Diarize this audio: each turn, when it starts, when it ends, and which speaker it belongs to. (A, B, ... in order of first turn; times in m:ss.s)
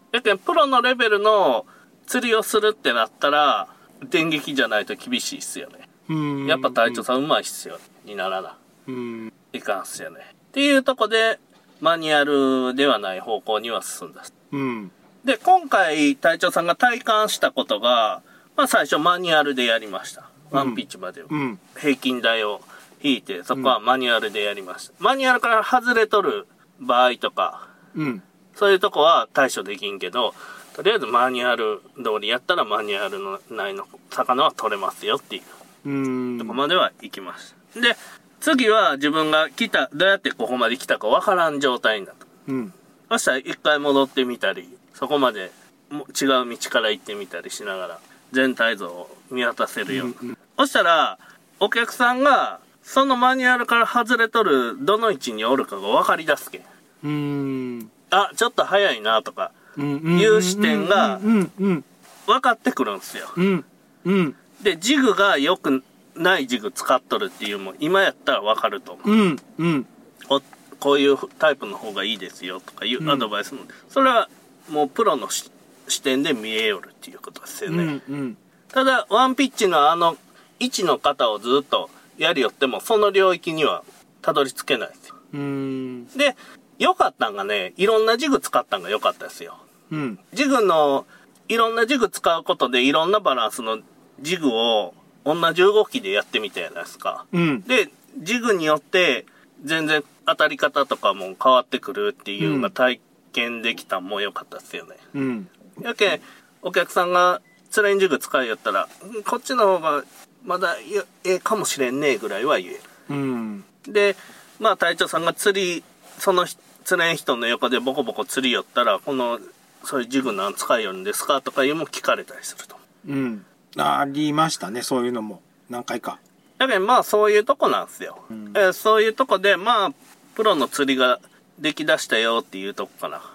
0:00.1-0:05.9 A
0:06.1-0:07.0 B
0:06.4-0:08.6 A
0:08.9-0:09.3 B
0:09.5-0:14.3 A
0:14.5-0:14.9 B
0:15.2-0:27.7 A
0:20.5-0:21.6 B
0:28.0-0:28.2 B
0:28.5-0:35.5 A
0:35.8-0:36.6 B
0:36.4-0:42.3 A
0:42.5-0:42.7 B
0:43.1-0:56.7 A
0:49.9-0:50.3 B
0:57.0-0:57.9 B
0:58.1-0:59.6 A
0:59.8-1:01.8 B
1:00.1-1:01.2 A
1:02.3-1:03.4 A
1:03.4-1:04.4 B
1:04.6-1:09.1 A
1:09.0-1:09.9 B
1:10.3-1:18.0 A
1:13.0-1:13.3 B
1:17.7-1:18.4 B
1:18.7-1:25.1 A
1:25.3-1:26.1 B
1:26.1-1:29.6 A
1:29.9-1:30.2 B
1:30.3-1:45.0 A
1:37.3-1:37.7 B
1:42.4-1:42.7 B
1:45.1-1:45.5 B
1:45.8-1:52.9 A
1:53.1-1:53.6 B
1:53.8-2:02.8 A
2:03.0-2:06.2 B
2:06.6-2:13.2 A